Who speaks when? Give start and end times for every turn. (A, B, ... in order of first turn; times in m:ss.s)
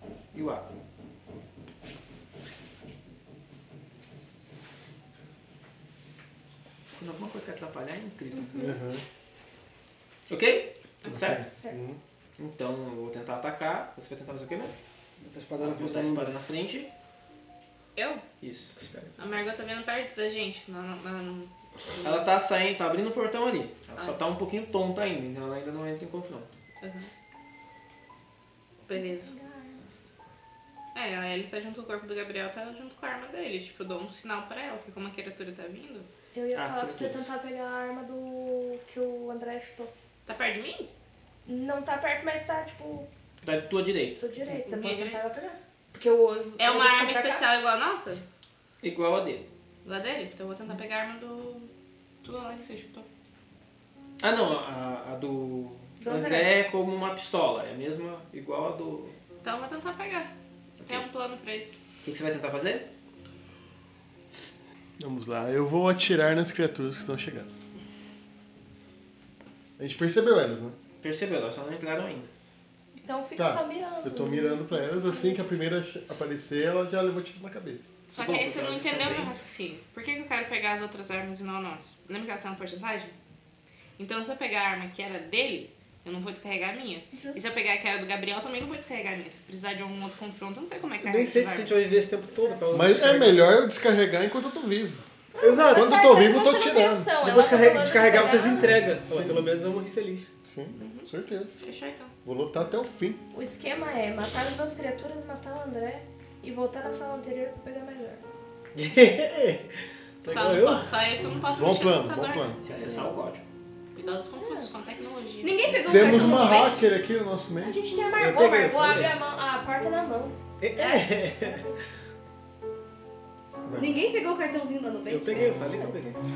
0:00.3-0:00.7 A
0:06.9-0:08.7 A
0:08.3-0:08.8 B
0:08.6-0:09.0 C
0:10.3-0:11.4 A
0:11.1-0:12.0 C
0:12.4-0:14.7 A
0:15.2-0:16.4 D
0:15.6-0:16.9 A
0:18.0-0:18.2 E
0:18.4-0:18.8 A
0:18.8-0:19.3 D
0:19.2-0:22.3 E
0:22.0-0:26.6 A
0:26.8-0:27.1 E
0:28.9-0:29.3 E
0:28.9-0:29.8 B
0:30.9-0:36.1 E
0:36.3-0:39.9 B
0:36.5-0:37.3 A
0:40.3-0:40.9 E
0:41.5-0:43.1 B
0:43.4-0:44.2 A
0:44.2-0:47.5 B
0:44.6-0:45.2 E
0:46.6-0:48.2 E
0:48.8-0:49.5 A
0:49.8-0:51.7 E
0:52.2-0:53.1 E
0:54.2-0:59.2 A
0:56.0-0:56.5 B
0:59.4-1:00.3 E
1:00.8-1:01.1 A
1:00.8-1:01.8 E
1:02.0-1:02.9 A
1:05.0-1:07.5 C
1:09.8-1:10.8 C
1:11.0-1:12.3 A
1:13.0-1:15.5 B
1:13.4-1:18.0 C
1:18.1-1:23.1 E
1:18.1-1:19.4 A
1:24.0-1:31.8 E
1:27.1-1:27.4 B
1:31.0-1:33.5 D
1:32.7-1:35.0 C
1:35.4-1:38.8 B
1:35.4-1:36.1 D
1:35.7-1:37.1 C
1:37.2-1:40.3 D
1:38.6-1:39.5 C
1:40.5-1:41.6 C
1:40.8-1:41.1 E
1:41.6-1:42.1 E
1:42.2-1:43.2 C
1:43.3-1:48.3 B
1:48.8-1:49.7 D
1:50.2-1:51.0 D
1:50.3-1:52.6 E
1:51.5-1:52.6 C
1:52.6-1:53.5 A
1:54.0-1:55.6 E
1:54.4-1:54.7 B
1:55.4-1:56.8 F
1:55.9-1:57.8 C
1:56.0-1:56.7 B
1:57.6-2:00.4 B
1:58.2-1:59.2 D
2:00.6-2:01.6 D
2:01.4-2:01.8 B
2:03.6-2:04.0 C
2:03.8-2:05.9 F
2:05.1-2:06.2 D